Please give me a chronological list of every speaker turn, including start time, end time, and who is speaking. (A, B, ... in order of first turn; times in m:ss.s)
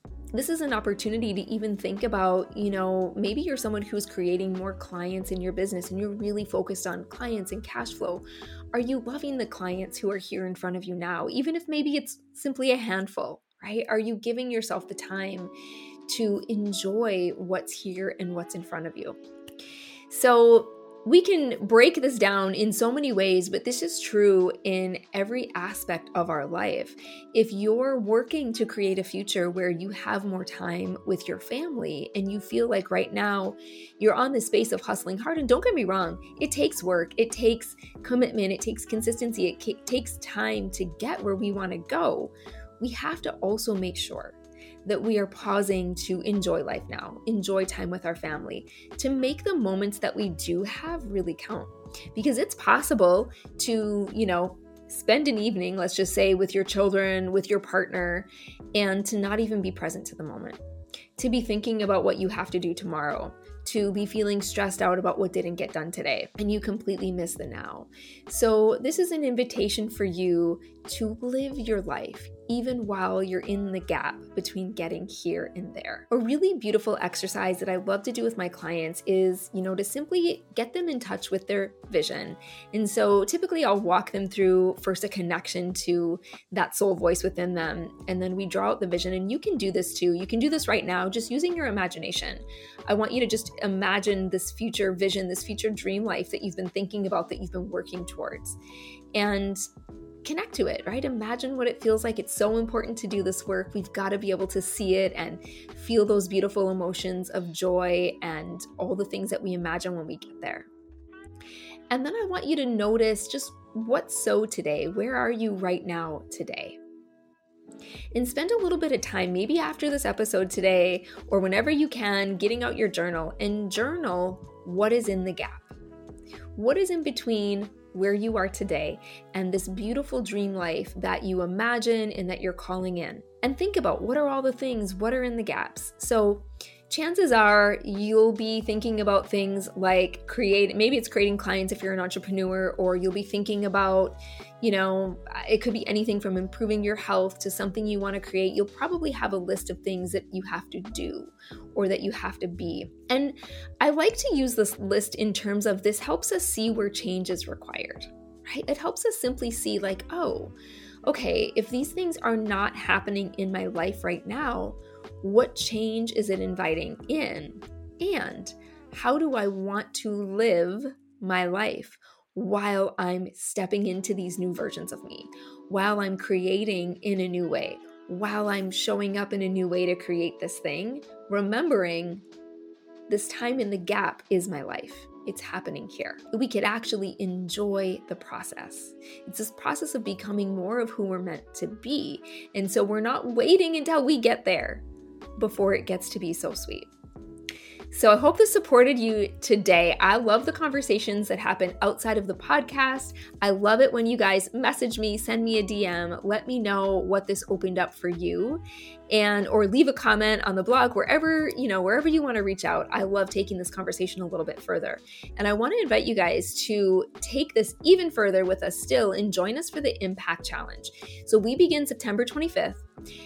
0:00.3-0:15.5 A
0:16.1-0:19.2 A
0:20.1-1:00.6 A
1:01.2-1:38.6 A
1:39.1-1:39.6 A
1:40.2-1:50.7 A
1:51.9-1:56.8 A
1:58.1-2:05.7 A
2:06.5-3:02.2 A
3:03.1-3:14.8 A
3:15.4-3:16.9 A
3:17.9-3:42.8 A